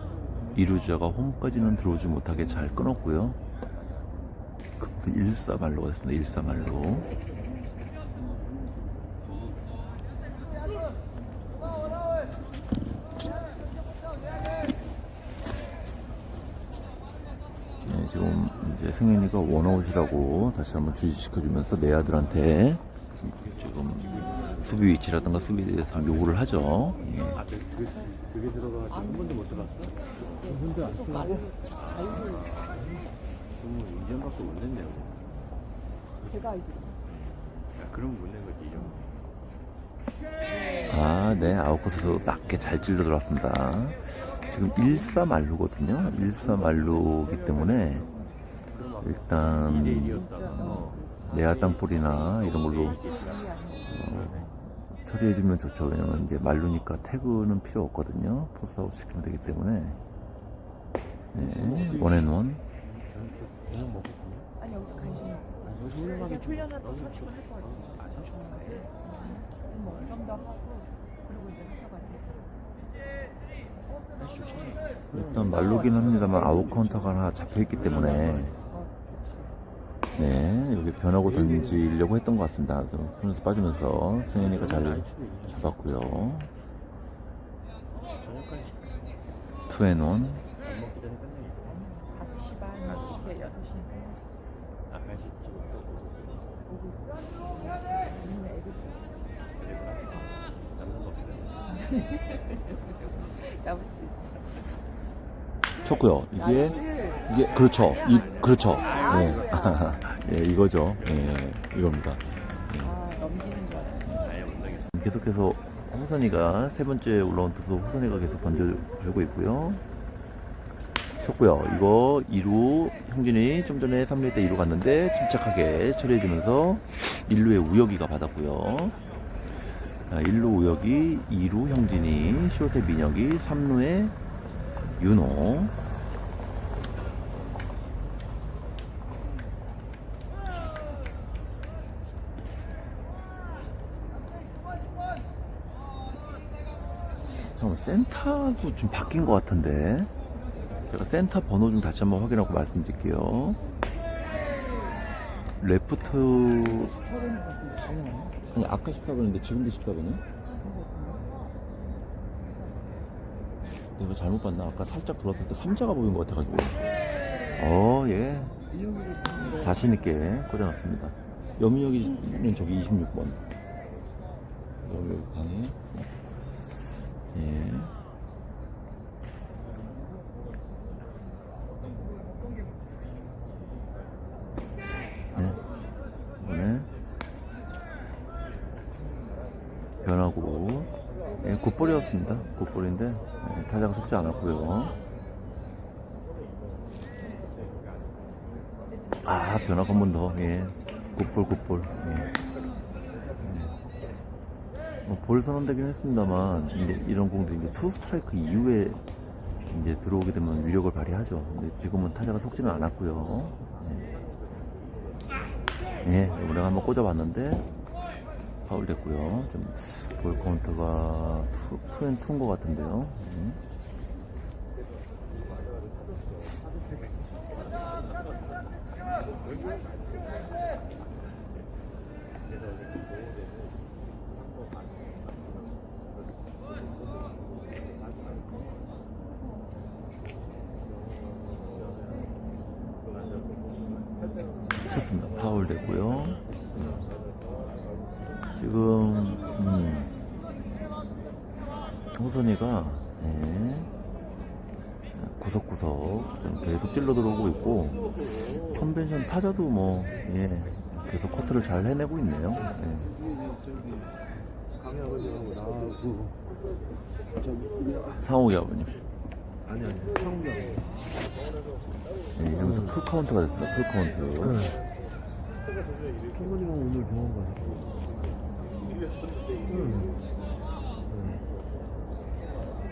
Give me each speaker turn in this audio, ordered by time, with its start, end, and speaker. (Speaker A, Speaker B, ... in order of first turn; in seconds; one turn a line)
Speaker A: 0.5-3.4
Speaker A: 4.8-7.1
Speaker A: 17.8-27.4
Speaker B: 23.7-25.2
Speaker B: 27.3-30.0
Speaker C: 29.0-29.7
Speaker C: 30.4-32.5
Speaker D: 30.5-31.5
Speaker B: 31.7-35.2
Speaker C: 36.3-37.0
Speaker B: 37.7-39.3
Speaker A: 40.8-48.1
Speaker B: 46.0-54.5
Speaker A: 49.0-53.0
Speaker C: 50.2-51.2
Speaker C: 53.0-53.9
Speaker A: 53.9-60.0
Speaker A: 61.3-62.6
Speaker B: 62.8-64.5
Speaker C: 64.6-65.7
Speaker B: 65.6-68.9
Speaker C: 67.3-67.9
Speaker C: 68.6-72.5
Speaker B: 74.1-76.9
Speaker A: 75.1-78.6
Speaker B: 77.6-78.7
Speaker C: 78.7-79.6
Speaker A: 80.1-86.5
Speaker B: 84.3-86.3
Speaker B: 88.2-89.2
Speaker A: 89.7-90.5
Speaker B: 90.6-91.8
Speaker C: 91.7-94.4
Speaker B: 92.8-93.6
Speaker B: 94.9-96.6
Speaker C: 96.7-99.1
Speaker B: 99.5-101.6
Speaker C: 101.7-104.6
Speaker A: 105.8-113.0
Speaker C: 106.4-107.2
Speaker B: 107.4-109.6
Speaker C: 108.7-109.9
Speaker B: 110.9-111.5
Speaker C: 112.8-114.0
Speaker B: 114.1-114.9
Speaker A: 114.9-119.8
Speaker A: 121.2-129.0
Speaker A: 130.0-134.1
Speaker A: 134.8-135.7
Speaker A: 147.3-150.1
Speaker A: 150.8-153.6
Speaker A: 155.6-157.0
Speaker D: 157.4-158.3
Speaker A: 158.5-160.2
Speaker A: 164.0-166.9
Speaker A: 167.6-168.5
Speaker D: 168.9-169.6
Speaker A: 169.4-173.4
Speaker A: 174.8-176.1
Speaker A: 177.1-177.9
Speaker A: 185.3-185.6
Speaker A: 186.4-186.9
Speaker A: 190.0-194.9
Speaker A: 199.2-202.3
Speaker A: 203.4-203.7
Speaker A: 205.0-209.0
Speaker A: 209.7-214.1
Speaker A: 216.0-217.7
Speaker A: 218.6-223.6
Speaker A: 244.8-247.0
Speaker A: 248.5-250.1
Speaker A: 252.1-253.9
Speaker A: 255.1-263.1
Speaker D: 263.2-264.2
Speaker D: 264.9-266.4
Speaker D: 267.4-268.2
Speaker A: 268.2-269.0
Speaker D: 269.6-270.8
Speaker A: 272.3-274.8
Speaker D: 276.3-277.8
Speaker D: 279.7-280.2
Speaker D: 281.1-281.4